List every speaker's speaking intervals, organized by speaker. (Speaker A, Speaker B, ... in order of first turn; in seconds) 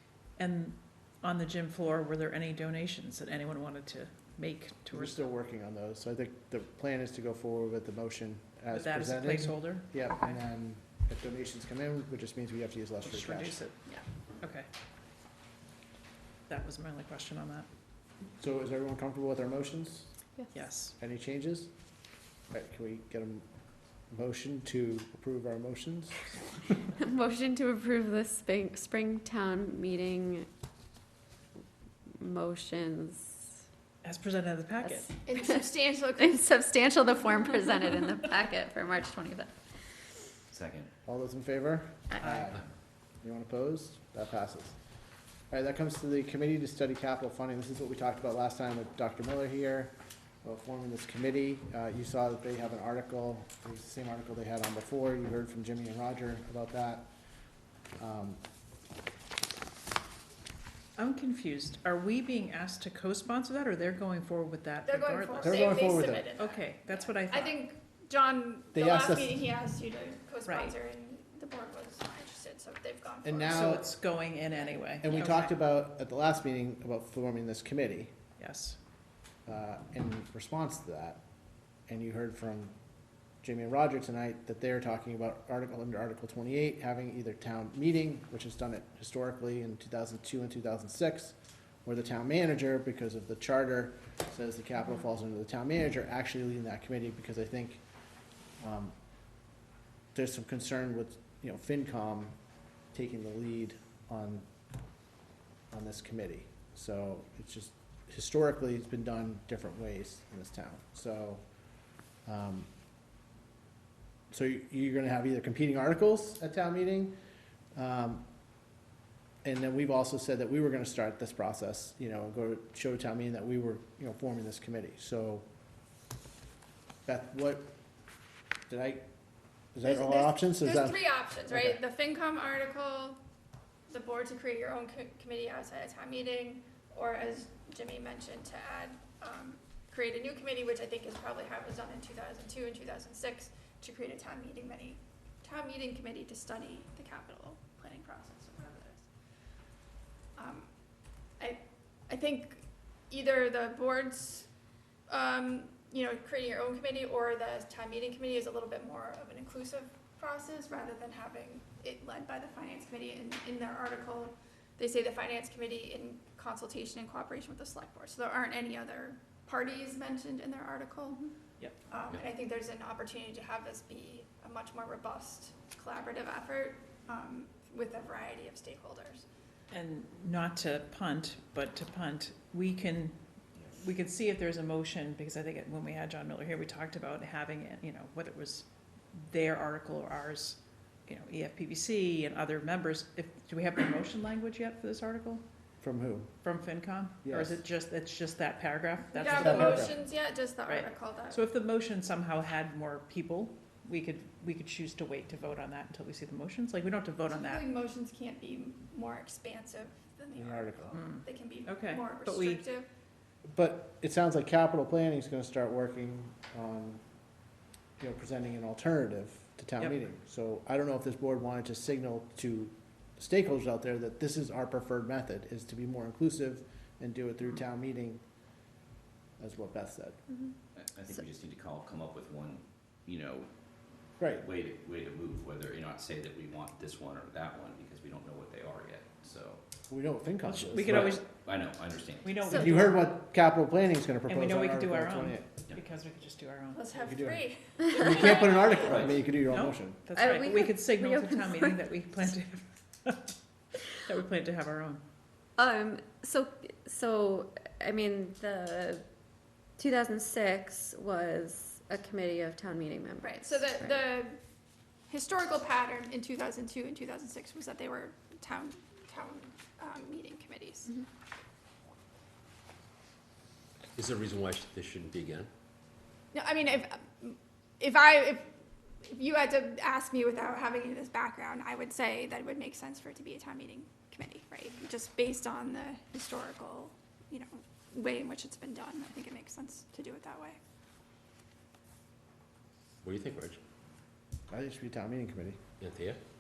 Speaker A: 0.4-5.3, 8.7-10.4, 13.1-13.8, 14.4-14.7, 16.5-17.7, 20.5-20.9, 34.0-35.1, 61.0-67.6, 70.5-70.8, 73.5-75.5, 78.4-78.8, 179.7-183.2, 183.7-195.4, 196.4-200.0, 200.7-207.6, 210.9-212.7, 240.4-241.3, 242.2-243.0, 244.3-246.9, 249.5-253.3, 253.9-255.0
Speaker B: 4.9-13.6, 18.4-20.1, 21.0-21.7, 22.5-23.5, 24.1-26.7, 41.1-42.7, 43.2-44.8, 45.5-57.1, 58.0-58.4, 65.4-66.3, 68.7-69.4, 73.2-73.9, 75.0-78.2, 79.5-81.2, 81.9-82.8, 83.4-97.8, 98.6-99.0, 100.2-102.4, 102.9-104.5, 105.7-111.4, 112.3-112.7, 114.3-117.2, 117.8-118.3, 119.4-125.5, 127.1-127.7, 128.7-129.1, 129.8-131.8, 195.8-196.3, 197.2-197.6, 199.3-200.0, 210.4-211.0, 213.5-217.0, 218.0-228.2, 229.4-230.2, 234.2-234.4, 239.9-241.2, 242.5-245.5, 247.0-250.0, 294.5-295.6
Speaker C: 26.9-30.5, 32.2-33.4, 34.8-35.5, 36.2-39.5, 250.2-251.8, 255.6-259.1, 259.8-264.0
Speaker D: 35.3-36.4, 64.8-73.9, 74.5-75.2, 129.8-133.2, 133.9-149.1, 150.4-150.7, 151.4-154.5, 155.1-171.3, 171.9-179.2, 199.1-201.4, 207.3-212.9, 246.7-248.8, 263.2-264.4, 265.1-271.0, 276.3-278.5, 279.1-290.6
Speaker E: 40.5-40.9, 230.7-233.5, 234.2-239.6, 240.8-242.4, 248.7-249.2
Speaker F: 274.0-275.5, 293.0-293.6, 295.8-296.2